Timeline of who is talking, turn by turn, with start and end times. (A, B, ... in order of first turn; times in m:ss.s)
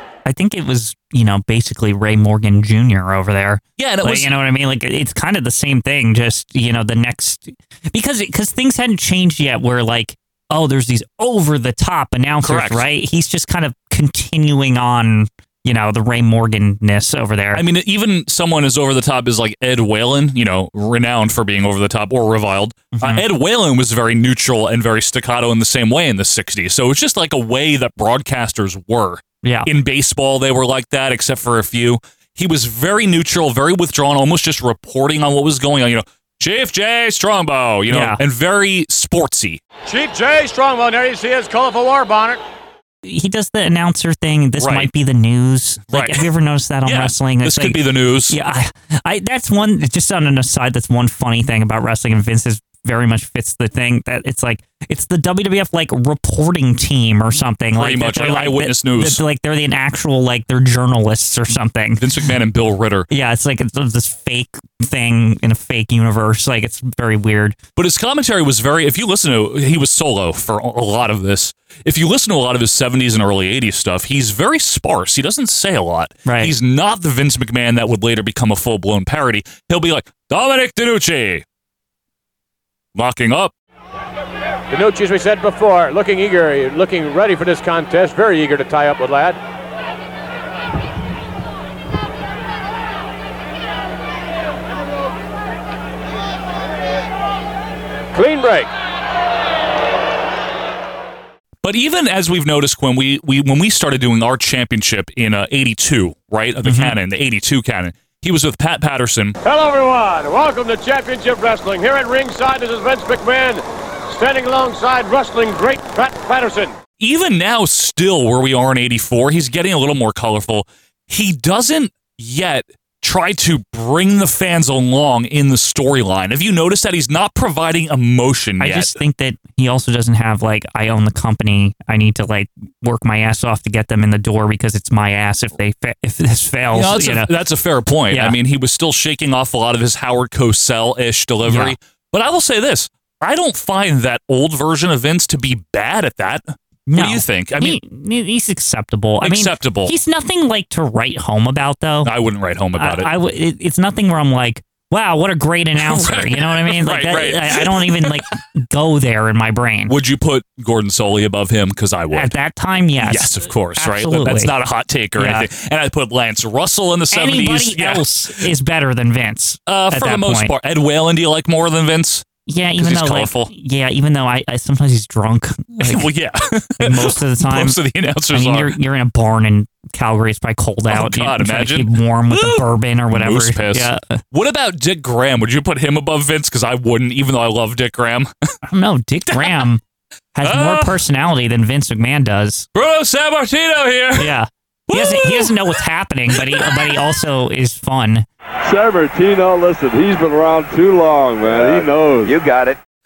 0:00.2-0:17.6 A
0:03.8-0:04.4 B
0:12.4-0:12.9 B
0:17.5-0:39.6 B
0:22.9-0:23.2 A
0:29.4-0:29.7 A
0:37.9-0:38.2 A
0:43.0-1:02.0 A
0:44.6-0:44.9 B
0:45.9-0:46.3 B
0:46.8-0:48.4 B
0:57.8-0:59.2 B
1:02.0-1:03.1 B
1:03.1-1:07.6 A
1:07.8-1:21.4 B
1:16.3-1:16.5 A
1:23.0-1:23.5 B
1:24.7-1:29.4 C
1:38.1-1:38.7 C
1:41.6-1:49.4 B
1:46.6-1:47.0 A
1:49.4-1:56.7 C
1:57.0-2:09.0 B
2:08.6-2:17.3 A
2:16.7-2:27.8 B
2:18.1-2:18.4 A
2:21.5-2:21.8 A
2:26.9-2:32.1 A
2:29.2-2:30.0 B
2:32.0-2:33.1 B
2:32.8-2:40.0 A
2:35.8-2:38.2 B
2:39.9-2:42.3 B
2:42.1-2:44.5 A
2:43.0-2:48.5 B
2:45.2-2:45.5 A
2:47.1-2:50.5 A
2:49.7-2:52.3 B
2:52.5-2:56.1 A
2:52.8-2:53.5 B
2:55.8-2:58.7 B
2:56.8-2:57.8 A
2:58.3-3:04.2 A
3:00.9-3:08.3 B
3:08.7-3:09.8 A
3:09.3-3:09.7 B
3:10.4-3:12.7 A
3:10.4-3:11.0 B
3:12.8-3:14.3 B
3:14.2-3:18.3 A
3:14.9-3:15.7 B
3:16.3-3:17.1 B
3:18.6-3:22.4 D